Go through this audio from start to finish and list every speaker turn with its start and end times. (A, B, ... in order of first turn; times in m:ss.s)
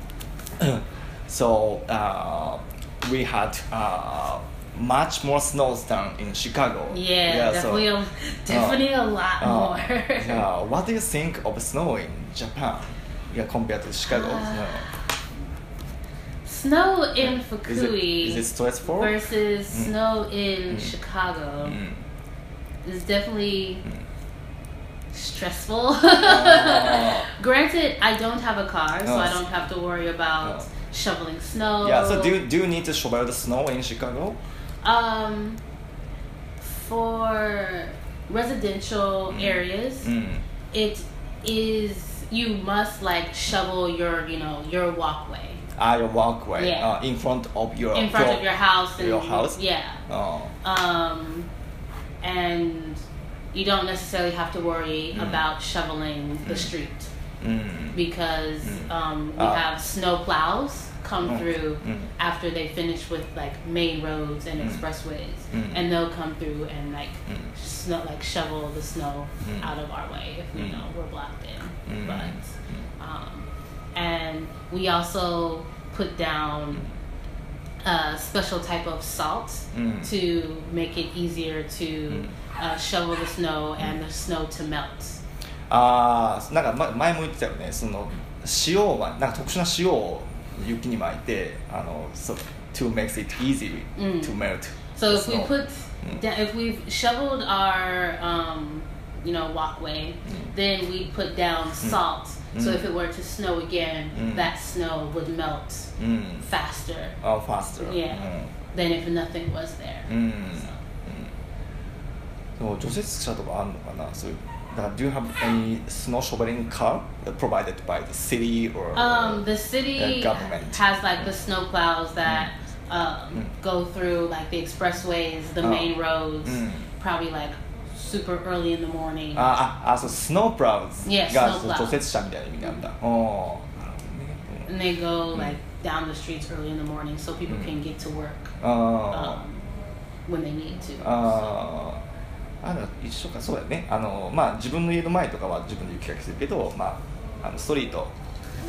0:00.6-0:07.9 A
0:06.9-0:10.5 B
0:08.5-0:08.8 A
0:09.4-0:14.9 A
0:14.1-0:15.0 B
0:16.4-0:21.8 B
0:17.6-0:19.2 A
0:21.6-0:22.0 A
0:22.8-0:23.8 B
0:25.1-0:32.4 B
0:26.2-0:27.3 A
0:29.0-0:29.4 A
0:31.8-0:34.4 A
0:34.8-0:35.6 B
0:36.6-0:40.1 B
0:39.3-0:40.4 A
0:40.7-0:45.6 B
0:45.8-0:48.5 A
0:46.6-0:46.9 B
0:47.9-0:50.0 B
0:49.0-0:50.5 A
0:50.6-0:51.5 B
0:52.2-0:57.1 B
0:55.1-0:55.4 A
0:56.4-0:56.7 A
0:57.4-0:58.0 A
0:57.9-1:16.9 B
0:58.6-0:59.6 A
1:01.2-1:02.1 A
1:05.5-1:05.8 A
1:09.4-1:09.7 A
1:10.6-1:10.8 A
1:11.9-1:12.4 A
1:17.8-1:25.2 B
1:19.7-1:20.1 A
1:25.7-1:36.2 A
1:34.0-1:34.4 B
1:35.0-1:47.2 B
1:42.5-1:42.9 A
1:44.2-1:44.5 A
1:46.0-1:46.5 A
1:47.2-1:48.5 A
1:47.8-1:50.7 B
1:50.1-1:51.3 A
1:52.6-1:59.4 A
1:59.0-2:09.5 B
2:00.0-2:00.8 A
2:05.6-2:05.9 A
2:06.4-2:06.9 A
2:09.3-2:14.7 A
2:11.0-2:12.0 B
2:14.7-2:18.6 B
2:18.6-2:19.4 A
2:19.1-2:19.6 B
2:20.3-2:21.4 B
2:21.0-2:22.0 A
2:22.6-2:28.2 A